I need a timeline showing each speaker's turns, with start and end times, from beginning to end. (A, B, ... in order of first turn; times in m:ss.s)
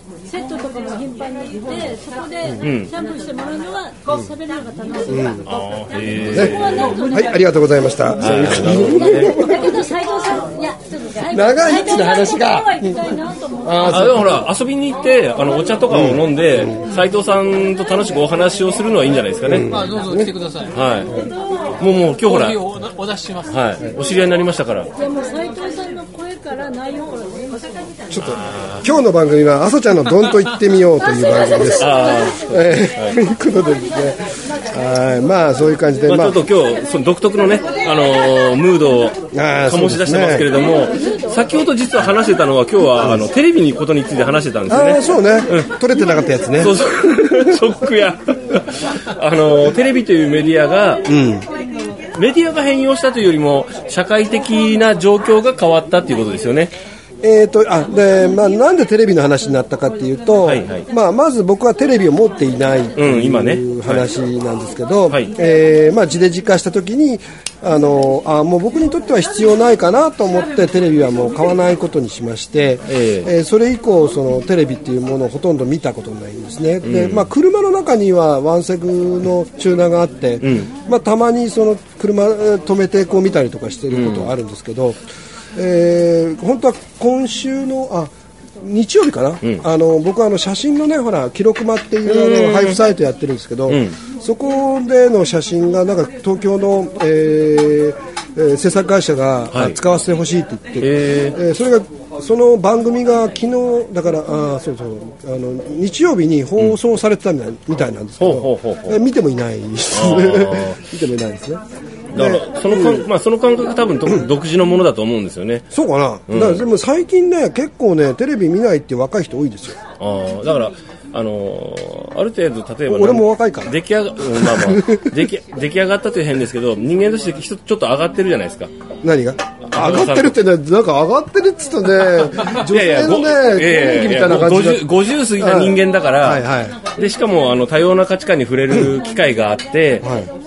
0:00.2-0:07.4 A
0:02.6-0:02.9 B
0:05.1-0:05.5 C
0:05.4-0:07.0 B
0:06.3-0:09.9 C
0:08.2-0:09.4 B
0:09.1-0:14.2 A
0:11.2-0:14.4 C
0:13.8-0:19.7 B
0:15.9-0:16.8 C
0:19.4-0:20.3 C
0:19.6-0:20.8 D
0:20.7-0:21.1 B
0:21.8-0:22.6 B
0:22.2-0:23.6 D
0:23.5-0:24.9 B
0:25.0-0:28.0 A
0:28.1-0:36.4 C
0:28.2-0:28.9 B
0:31.0-0:32.4 A
0:31.7-0:33.2 B
0:36.0-0:45.7 B
0:39.3-0:40.6 C
0:40.8-0:41.2 A
0:43.0-0:43.3 C
0:44.7-0:46.8 C
0:46.6-0:51.1 B
0:51.0-0:51.4 C
0:52.1-0:56.7 B
0:57.2-1:25.0 C
1:00.4-1:00.9 B
1:02.9-1:04.1 B
1:12.9-1:13.3 B
1:16.8-1:17.3 B
1:20.4-1:20.7 B
1:23.9-1:24.3 B
1:25.5-1:51.6 C
1:32.0-1:32.8 B
1:33.7-1:34.0 B
1:39.5-1:39.8 B
1:40.8-1:41.4 B
1:48.2-1:49.0 B
1:49.9-1:50.8 B
1:52.1-1:53.1 C
1:52.1-1:55.7 B
1:55.7-1:59.8 C
1:56.3-1:56.6 B
2:00.0-2:08.7 B
2:02.9-2:05.2 C
2:09.0-2:16.8 C
2:09.6-2:10.4 B
2:12.6-2:20.1 B
2:20.0-2:20.3 C